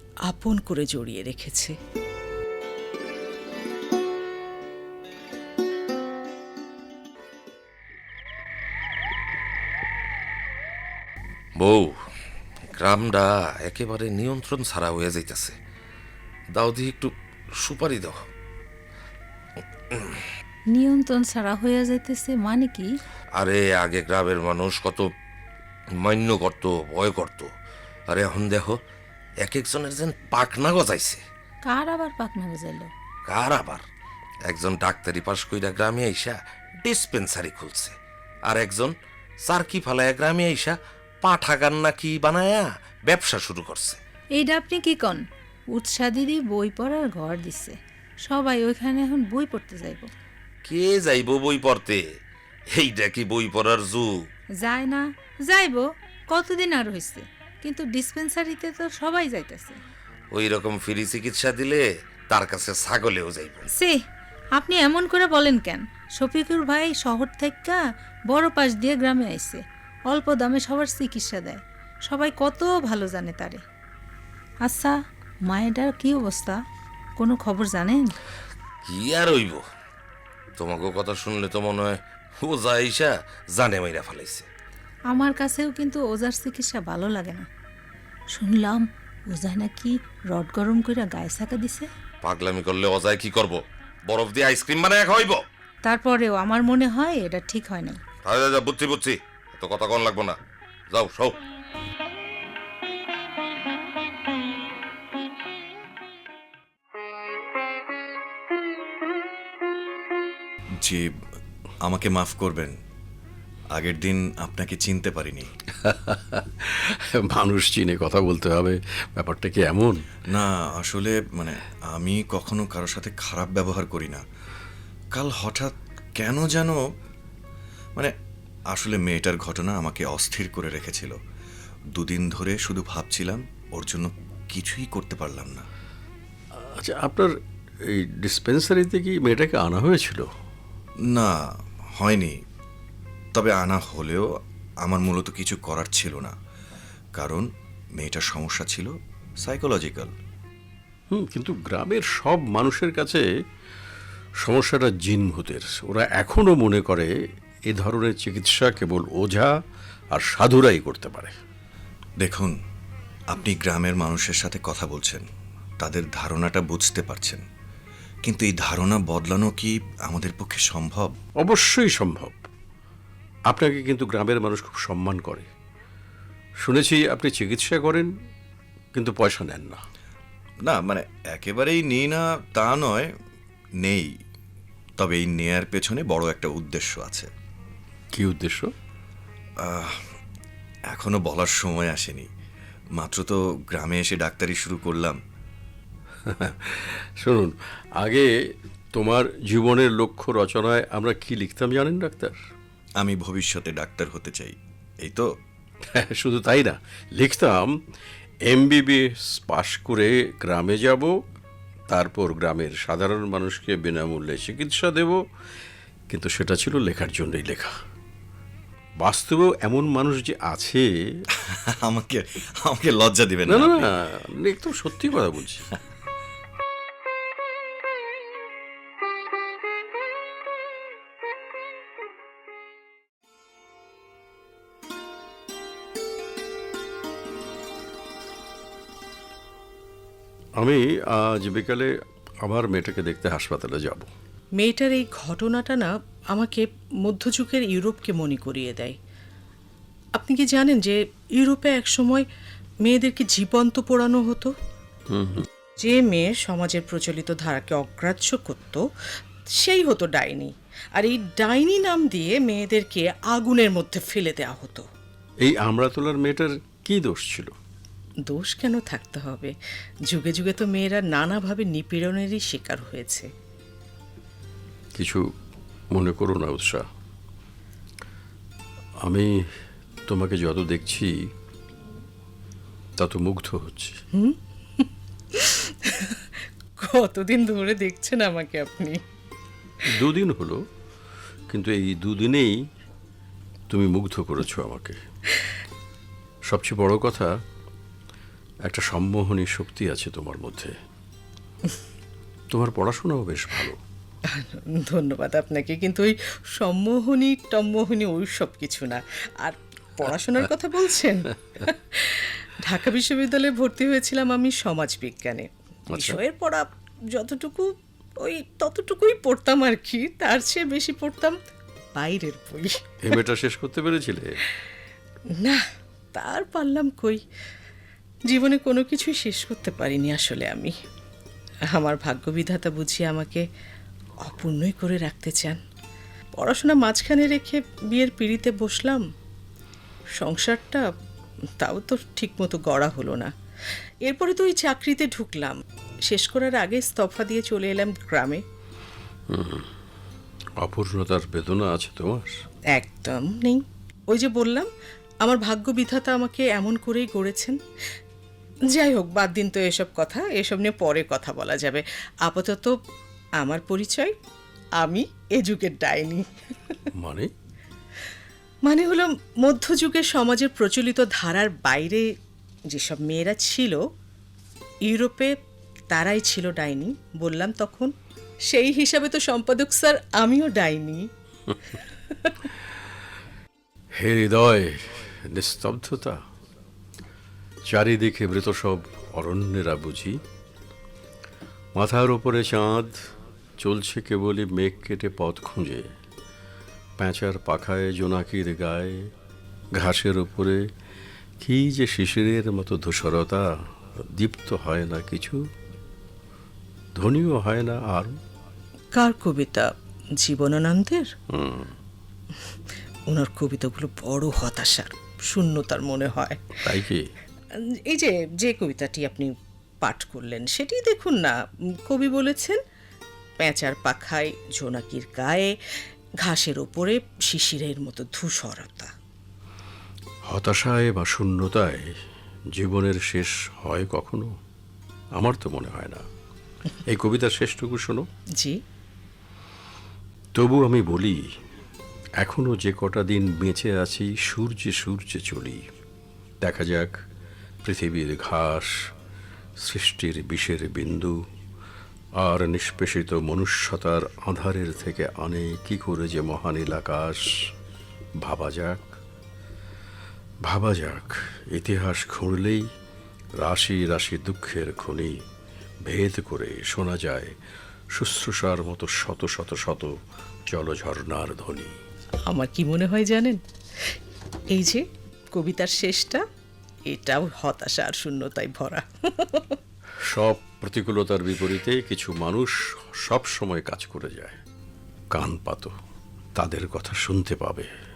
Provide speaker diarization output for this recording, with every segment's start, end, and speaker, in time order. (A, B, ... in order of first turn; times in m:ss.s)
0:00.3-0:01.7 A
0:11.6-0:12.0 B
0:12.7-0:15.5 B
0:16.5-0:18.2 B
0:19.9-0:20.2 B
0:20.7-0:22.9 C
0:23.3-0:25.1 B
0:25.9-0:27.5 B
0:28.1-0:28.8 B
0:29.4-0:31.2 B
0:31.6-0:32.9 C
0:33.2-0:33.8 B
0:34.4-0:37.9 B
0:38.4-0:44.0 B
0:44.3-0:45.2 C
0:45.7-0:50.1 C
0:50.6-0:52.0 B
0:52.7-0:54.3 B
0:54.6-0:59.8 C
1:00.3-1:03.6 B
1:04.6-1:13.6 C
1:14.6-1:15.0 C
1:15.5-1:16.6 C
1:17.2-1:18.1 C
1:18.8-1:19.6 B
1:20.6-1:24.4 B
1:25.1-1:27.4 C
1:28.3-1:31.9 C
1:32.2-1:35.4 B
1:35.8-1:38.0 C
1:38.2-1:40.4 B
1:40.9-1:41.4 B
1:50.8-1:51.1 D
1:51.8-1:52.7 D
1:53.7-1:55.5 D
1:55.7-2:00.0 E
2:00.3-2:04.2 D
2:05.1-2:06.8 D
2:08.7-2:11.2 D
2:12.0-2:15.6 D
2:16.5-2:17.3 E
2:17.8-2:20.3 E
2:21.1-2:21.4 D
2:22.0-2:22.3 D
2:23.4-2:24.3 D
2:24.8-2:26.3 D
2:27.2-2:30.1 D
2:31.1-2:33.2 E
2:34.4-2:37.1 E
2:37.7-2:39.5 E
2:40.1-2:41.3 E
2:42.2-2:42.5 D
2:43.3-2:45.2 D
2:45.8-2:47.4 D
2:48.2-2:51.1 D
2:51.4-2:52.4 E
2:53.5-2:55.5 E
2:56.6-2:58.1 E
2:58.9-2:59.8 E
3:00.6-3:03.1 D
3:03.8-3:04.1 D
3:05.0-3:07.3 D
3:08.1-3:08.7 E
3:09.6-3:10.0 D
3:10.9-3:12.3 D
3:13.0-3:15.2 D
3:16.2-3:22.4 E
3:23.0-3:25.3 D
3:25.8-3:27.7 E
3:28.4-3:31.1 E
3:31.9-3:35.2 E
3:36.1-3:37.8 E
3:39.0-3:41.2 E
3:41.5-3:43.9 D
3:43.5-3:45.6 E
4:00.6-4:01.9 E
4:02.4-4:04.1 E
4:04.5-4:09.0 A
4:10.2-4:12.2 A
4:12.8-4:14.5 A
4:15.1-4:15.5 E
4:15.8-4:18.8 A
4:19.5-4:24.8 A
4:25.4-4:27.5 E
4:28.2-4:29.5 A
4:30.1-4:33.3 A
4:34.9-4:35.2 E
4:35.9-4:36.8 E
4:39.0-4:39.3 E
4:40.0-4:41.1 E
4:43.0-4:44.0 E
4:44.2-4:49.0 A
4:49.9-4:50.6 E
4:51.5-4:52.6 E
4:53.7-4:55.0 E
4:56.4-4:57.3 E
4:58.6-5:00.7 E
5:02.5-5:03.8 E
5:04.3-5:21.4 A
5:15.9-5:16.2 E
5:21.9-5:22.8 A
5:23.0-5:24.4 E
5:25.3-5:25.6 A
5:26.1-5:27.2 A
5:28.3-5:30.7 A
5:31.7-5:33.4 A
5:34.2-5:35.6 A
5:36.4-5:39.0 A
5:40.2-5:40.8 A
5:41.6-5:43.3 A
5:44.0-5:48.4 A
5:49.3-5:49.7 E
5:50.6-5:52.4 E
5:52.7-5:54.7 A
5:55.2-5:57.6 A
5:58.7-6:02.7 A
6:03.4-6:04.2 A
6:04.8-6:06.8 A
6:06.9-6:07.3 E
6:08.6-6:12.1 A
6:12.7-6:13.8 A
6:14.8-6:15.3 A
6:15.9-6:17.9 A
6:18.5-6:21.1 A
6:23.9-6:26.2 E
6:27.7-6:30.2 E
6:31.7-6:32.9 E
6:33.6-6:35.9 E
6:37.0-6:39.1 E
6:39.7-6:40.6 E
6:41.4-6:45.4 E
6:46.9-6:48.2 E
6:48.9-6:51.1 A
6:51.3-6:51.8 E
6:52.3-6:56.4 A
6:56.6-6:57.0 E
6:57.5-7:02.6 A
7:03.4-7:05.6 A
7:06.2-7:08.9 A
7:10.3-7:11.9 E
7:12.5-7:14.3 E
7:15.1-7:16.0 E
7:16.8-7:18.1 E
7:20.3-7:21.2 E
7:22.2-7:25.6 E
7:26.4-7:26.9 E
7:27.6-7:28.7 E
7:29.6-7:31.2 E
7:32.2-7:37.5 E
7:38.2-7:38.8 E
7:40.4-7:42.6 E
7:43.4-7:45.1 E
7:45.8-7:47.3 E
7:47.9-7:49.9 E
7:50.5-7:51.8 E
7:52.2-7:54.0 A
7:54.5-7:56.2 A
7:56.9-7:59.6 A
8:00.0-8:04.4 E
8:05.1-8:05.7 E
8:06.3-8:07.7 E